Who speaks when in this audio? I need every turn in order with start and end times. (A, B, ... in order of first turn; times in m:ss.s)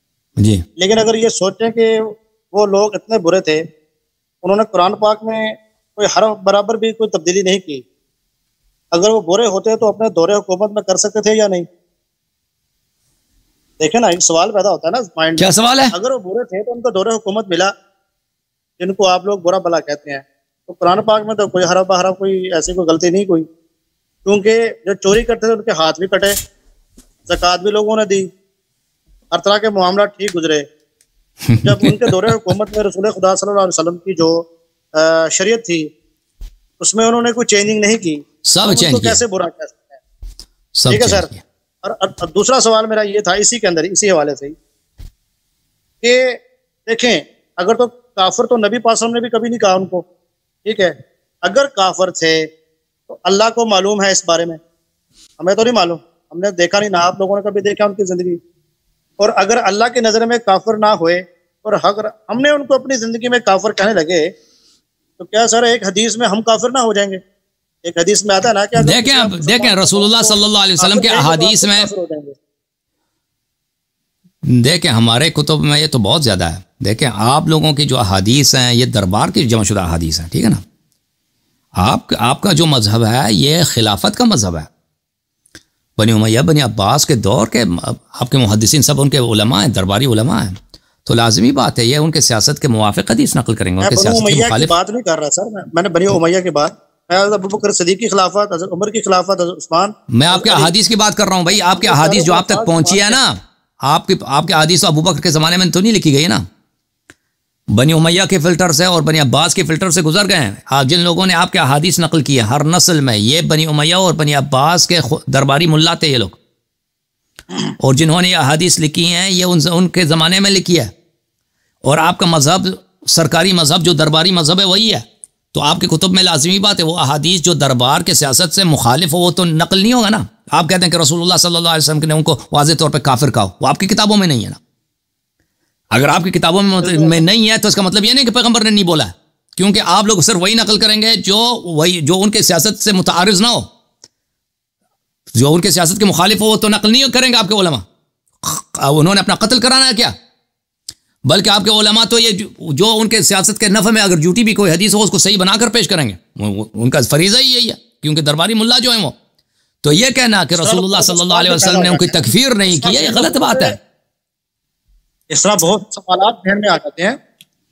0:00.8-0:03.6 A
0:04.4-0:07.8 A
0:08.9-0:11.6 A
0:13.8-0:17.7 A
0:15.4-0:15.9 B
0:18.8-0:23.5 A
0:24.2-0:26.3 A
0:27.3-0:28.3 A
0:29.3-0:30.6 A
0:31.5-0:32.1 B
0:31.6-0:35.9 A
0:36.8-0:40.0 A
0:38.4-0:39.2 B
0:40.8-0:41.4 B
0:40.9-0:41.3 A
0:41.8-0:44.5 A
0:46.0-0:50.0 A
0:50.6-0:52.5 A
0:53.1-0:54.6 A
0:55.4-0:58.4 A
0:59.2-1:04.3 A
1:05.2-1:07.2 A
1:07.8-1:12.4 A
1:08.8-1:11.9 B
1:14.4-1:20.6 B
1:21.8-1:24.7 B
1:26.0-1:34.7 B
1:33.8-1:40.7 A
1:40.1-1:46.4 B
1:41.5-1:43.2 A
1:47.7-1:56.4 B
1:57.8-2:00.9 B
2:01.8-2:14.6 B
2:15.9-2:23.6 B
2:16.8-2:17.2 A
2:25.3-2:27.8 B
2:28.4-2:30.1 B
2:31.2-2:39.1 B
2:39.8-2:43.8 B
2:40.6-2:42.2 A
2:42.7-2:43.7 A
2:45.3-2:47.2 A